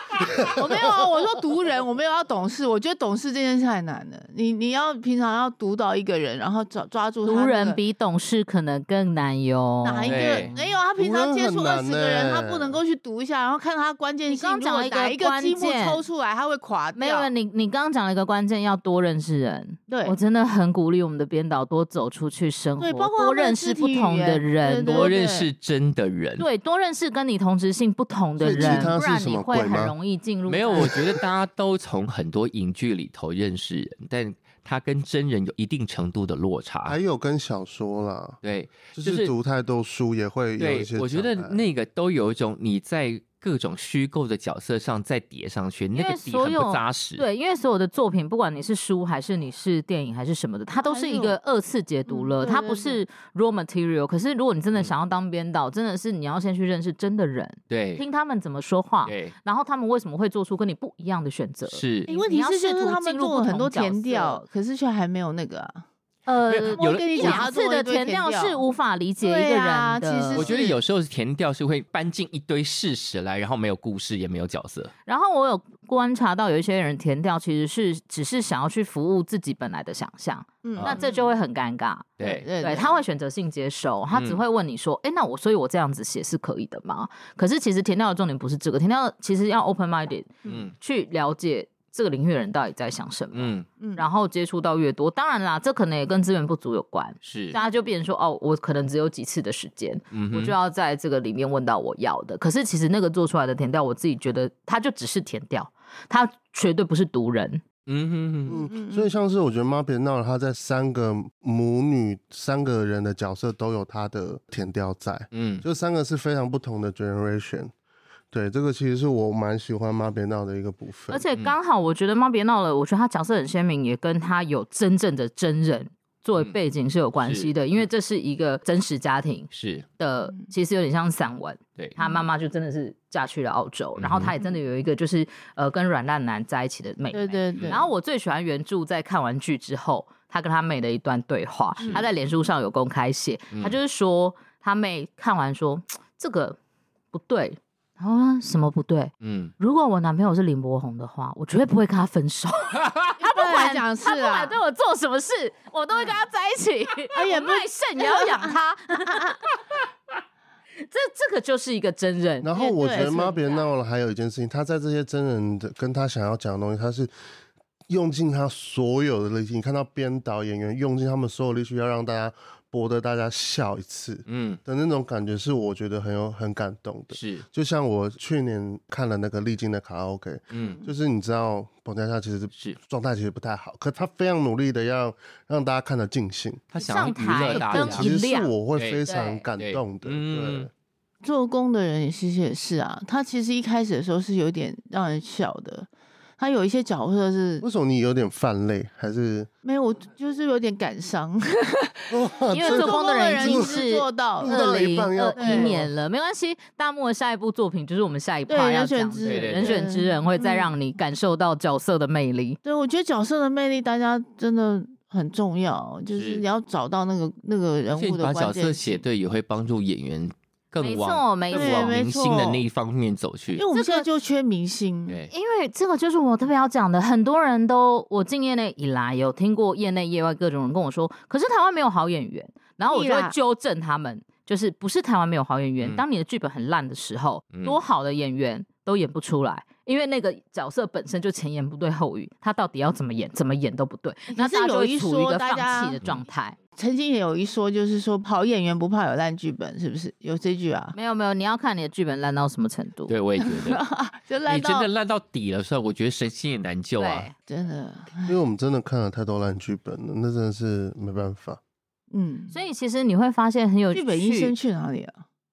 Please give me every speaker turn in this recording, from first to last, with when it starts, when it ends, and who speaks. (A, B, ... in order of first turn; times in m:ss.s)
0:00.2-0:00.8 A
0:00.5-0:07.8 B
0:07.2-0:10.6 C
0:09.8-0:17.3 B
0:10.0-0:10.5 D
0:11.0-0:12.8 A
0:14.3-0:16.0 C
0:17.0-0:25.1 C
0:19.9-0:20.2 B
0:22.8-0:25.5 B
0:24.8-0:26.5 D
0:26.4-0:30.9 C
0:28.4-0:29.9 A
0:28.5-0:28.9 D
0:30.5-0:37.0 D
0:30.8-0:31.2 A
0:36.8-0:38.4 A
0:38.4-0:39.3 D
0:38.9-0:41.6 A
0:40.6-0:47.2 D
0:45.9-1:04.4 C
0:50.8-0:51.4 B
0:52.1-0:53.0 B
0:57.7-0:58.0 D
0:59.0-0:59.3 D
1:01.7-1:02.1 D
1:02.1-1:05.8 B
1:06.3-1:10.5 C
1:06.5-1:07.4 D
1:06.8-1:08.6 B
1:09.2-1:10.8 B
1:10.3-1:14.9 D
1:15.1-1:47.6 C
1:20.6-1:21.3 B
1:22.2-1:22.5 D
1:22.2-1:23.0 B
1:24.1-1:24.4 D
1:30.4-1:30.7 B
1:30.4-1:30.7 D
1:33.3-1:33.7 D
1:33.8-1:34.0 B
1:37.2-1:37.6 D
1:40.1-1:40.5 D
1:47.9-1:48.6 D
1:48.4-1:57.7 A
1:48.7-1:49.1 B
1:55.3-1:55.6 D
1:58.3-2:01.2 A
2:01.1-2:26.6 C
2:07.2-2:07.8 D
2:09.5-2:09.8 D
2:12.0-2:12.2 B
2:14.0-2:14.3 D
2:17.1-2:17.9 B
2:21.8-2:22.0 B
2:27.1-2:39.3 C
2:29.2-2:29.5 D
2:33.2-2:34.6 B
2:37.1-2:39.4 B
2:40.9-2:43.3 C
2:42.4-2:47.1 A
2:42.6-2:43.4 B
2:47.9-3:06.6 A
2:54.3-2:54.6 D
2:57.1-2:57.4 D
3:00.5-3:00.8 D
3:00.6-3:00.9 B
3:06.7-3:08.1 D
3:06.8-3:08.5 C
3:07.3-3:10.7 A
3:08.8-3:09.0 D
3:09.1-3:09.4 C
3:09.6-3:10.7 D
3:11.2-3:15.9 B
3:16.4-3:17.6 B
3:17.6-3:19.5 A
3:19.6-3:24.6 B
3:22.1-3:23.8 A
3:22.5-3:32.6 C
3:24.4-3:25.9 A
3:25.4-3:25.7 B
3:28.5-3:30.7 B
3:29.2-3:29.8 D
3:32.6-3:39.0 B
3:36.1-3:36.4 D
3:37.9-3:43.6 D
3:40.8-3:42.0 C
3:41.5-3:42.6 B
3:43.5-3:45.2 B
3:43.7-3:44.0 C
3:45.3-4:06.6 C
3:52.9-3:53.3 B
3:57.5-3:57.8 D
4:04.3-4:06.0 B
4:06.8-4:10.9 B
4:10.9-4:13.1 C
4:13.1-4:13.8 D
4:13.4-4:14.9 B
4:14.4-4:17.3 D
4:17.0-4:17.3 C
4:17.4-4:18.4 B
4:18.3-4:21.6 A
4:22.1-4:22.5 B
4:22.5-4:24.5 C
4:23.9-4:25.2 B